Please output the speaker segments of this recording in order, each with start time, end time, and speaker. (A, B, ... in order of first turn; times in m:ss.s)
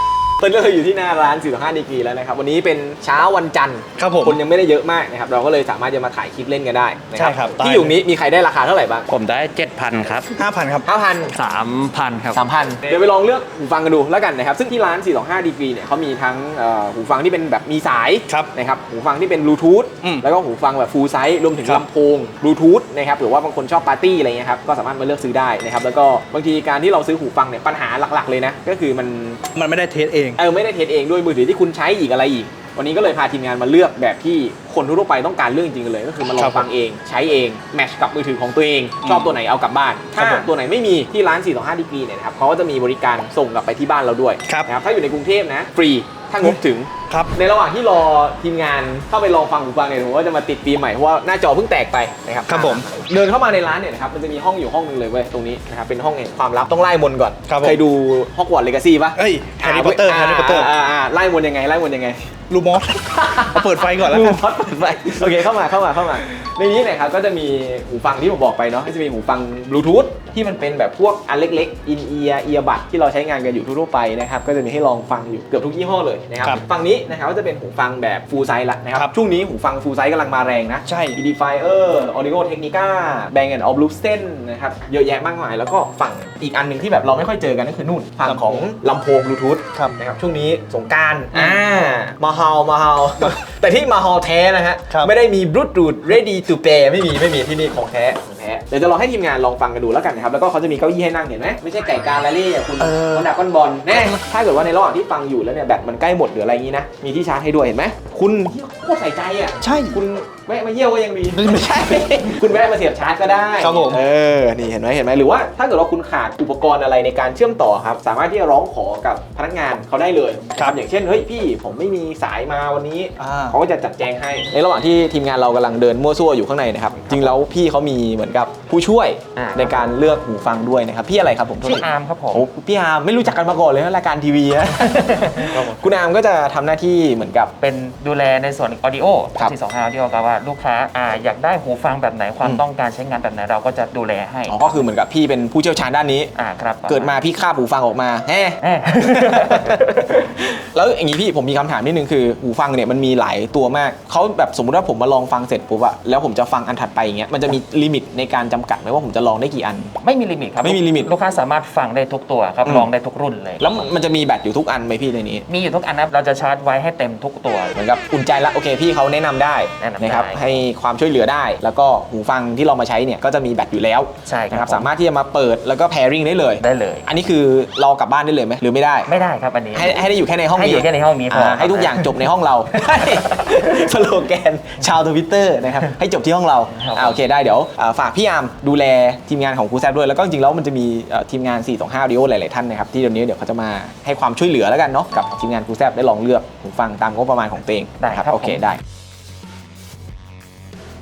0:00.4-0:09.1 A
0:04.0-0:04.4 B
0:07.1-0:07.9 B
0:09.1-0:10.3 C
0:10.3-0:10.9 B
0:10.8-0:11.3 A
0:11.4-0:12.2 C
0:12.3-0:29.4 A
0:29.5-0:30.4 B
0:30.4-1:02.3 A
0:36.2-0:36.7 B
0:39.0-0:39.3 B
0:40.2-0:40.5 B
0:52.5-0:52.9 B
0:57.5-0:57.8 B
0:59.2-1:00.7 B
1:02.5-1:04.4 B
1:03.2-2:17.5 A
1:20.8-1:21.2 B
1:28.2-1:28.7 B
1:42.8-1:43.2 B
1:49.6-1:50.0 B
1:53.6-1:54.0 B
2:03.2-2:03.6 B
2:09.3-2:09.8 C
2:11.6-2:12.5 C
2:15.0-2:15.8 C
2:17.6-2:24.8 C
2:24.5-2:26.3 A
2:26.3-2:27.2 C
2:26.9-2:39.9 A
2:28.6-2:29.8 C
2:40.0-2:43.9 C
2:40.6-2:41.1 A
2:42.6-2:42.9 A
2:43.6-2:45.4 A
2:45.5-2:47.7 C
2:47.7-2:59.1 A
2:49.8-2:50.6 C
2:54.2-2:54.9 C
2:56.6-2:57.1 C
2:59.1-3:02.2 C
2:59.7-3:18.8 A
3:06.7-3:07.2 C
3:18.0-3:18.6 C